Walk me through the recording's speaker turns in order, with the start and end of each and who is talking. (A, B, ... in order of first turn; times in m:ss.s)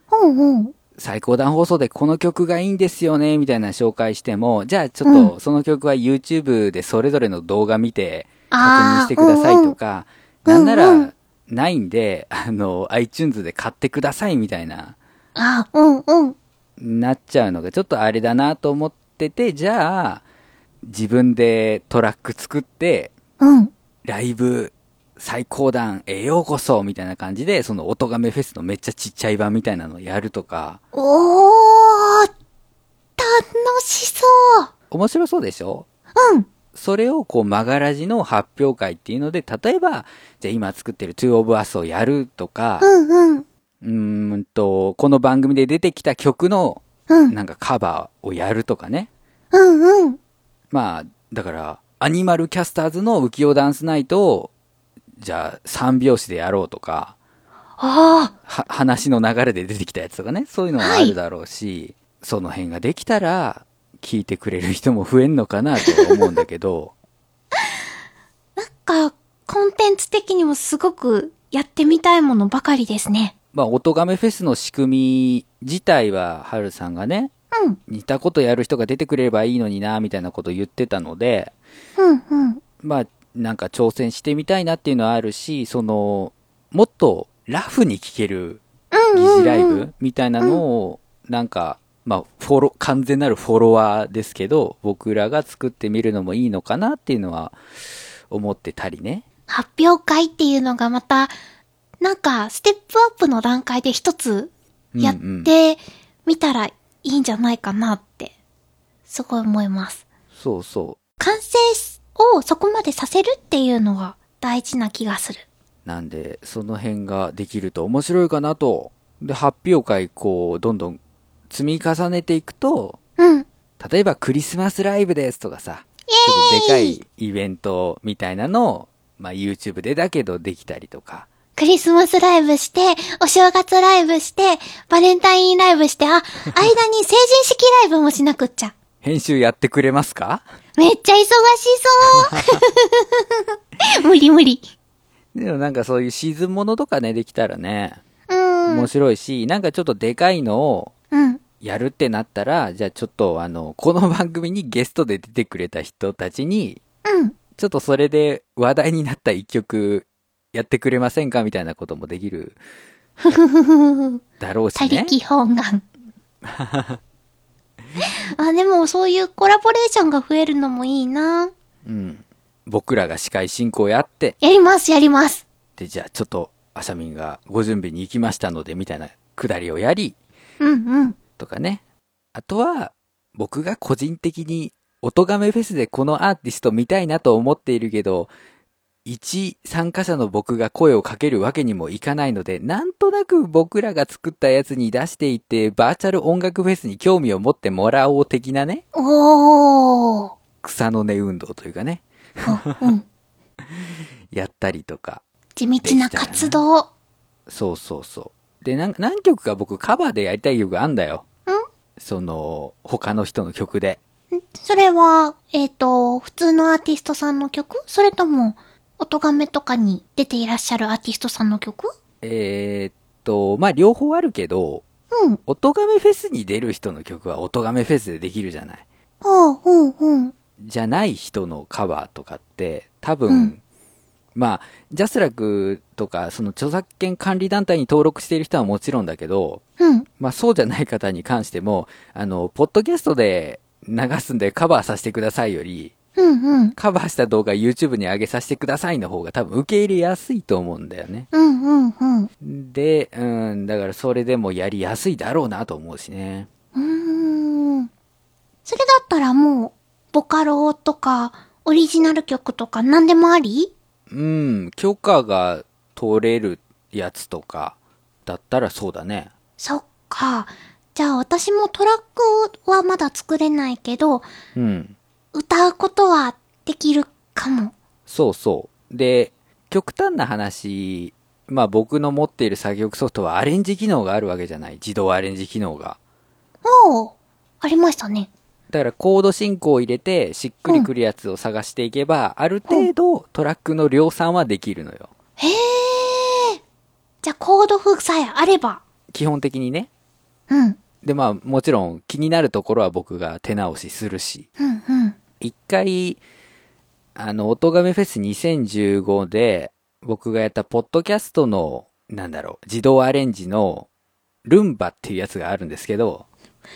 0:00.1-0:00.7 A
0:01.0-0:15.0 B
0:05.1-0:05.3 A
0:08.5-0:09.8 A
0:10.5-0:11.1 A
0:15.4-0:16.4 A
0:16.8-0:20.2 B
0:20.8-0:23.1 B
0:23.4-0:23.7 A
0:24.0-0:30.8 B
0:30.9-0:32.3 A
0:33.2-0:34.7 A
0:34.9-0:35.9 B
0:36.2-0:36.5 A
0:36.7-0:42.9 B
0:42.8-0:43.4 A
0:43.8-0:49.1 B
0:47.1-0:47.4 A
0:49.5-0:50.2 A
0:50.7-0:54.5 B
0:55.2-0:57.2 B
0:57.8-0:58.3 A
0:58.5-1:06.9 B
1:00.8-1:01.2 A
1:06.0-1:06.2 A
1:08.6-1:13.3 A
1:13.5-1:17.3 B
1:17.5-1:17.8 A
1:17.9-1:21.5 B
1:22.0-1:22.6 A
1:22.8-1:37.6 B
1:28.9-1:29.9 A
1:38.3-1:39.2 B
1:39.5-1:41.3 A
1:42.0-1:48.3 A
1:44.9-1:45.5 B
1:49.1-1:50.0 A
1:50.4-1:51.0 B
1:51.2-1:55.4 A
1:55.9-2:01.0 B
2:01.5-2:03.0 B
2:03.2-2:03.5 A
2:03.8-2:11.3 B
2:06.1-2:07.0 A
2:11.6-2:18.7 A
2:19.0-2:20.4 B
2:20.8-2:24.7 A
2:22.2-2:22.6 B
2:25.3-2:28.0 B
2:28.3-2:28.9 A
2:28.7-2:30.9 B
2:31.1-2:31.4 A
2:31.6-2:36.8 B
2:37.0-2:37.4 A
2:37.6-2:42.6 B
2:43.2-2:44.2 A
2:44.4-2:45.2 B
2:44.8-2:45.8 A
2:46.4-2:47.0 B
2:48.0-2:51.5 A
2:51.8-2:54.4 B
2:54.4-2:55.4 A
2:55.8-3:00.2 B
3:00.6-3:01.2 A
3:01.4-3:01.8 B
3:02.3-3:08.3 B
3:09.0-3:18.8 B
3:18.9-3:20.3 A
3:20.6-3:22.9 B
3:22.5-3:23.0 A
3:24.3-3:25.2 B
3:25.6-3:26.9 A
3:25.8-3:26.6 B
3:27.5-3:31.2 B
3:32.0-3:34.0 B
3:34.3-3:41.9 A
3:42.2-3:44.8 B
3:45.1-3:45.4 A
3:45.5-3:48.8 B
3:49.2-3:50.3 A
3:50.6-3:53.6 B
3:54.4-3:59.6 B
3:59.8-4:00.1 A
4:00.2-4:05.9 B
4:06.2-4:06.8 A
4:06.8-4:11.3 B
4:11.3-4:12.3 A
4:12.4-4:16.5 B
4:16.8-4:17.9 A
4:18.6-4:23.7 A
4:24.1-4:29.3 B
4:29.6-4:34.3 A
4:34.6-4:35.0 B
4:35.3-4:37.7 A
4:38.1-4:46.0 B
4:46.6-4:48.3 A
4:48.7-4:55.1 B
4:55.4-4:56.6 A
4:57.2-4:58.8 A
4:59.1-4:59.9 B
5:00.5-5:00.8 A
5:01.0-5:04.5 B
5:04.6-5:05.2 A
5:05.4-5:06.2 B
5:07.2-5:13.9 B
5:14.4-5:16.2 B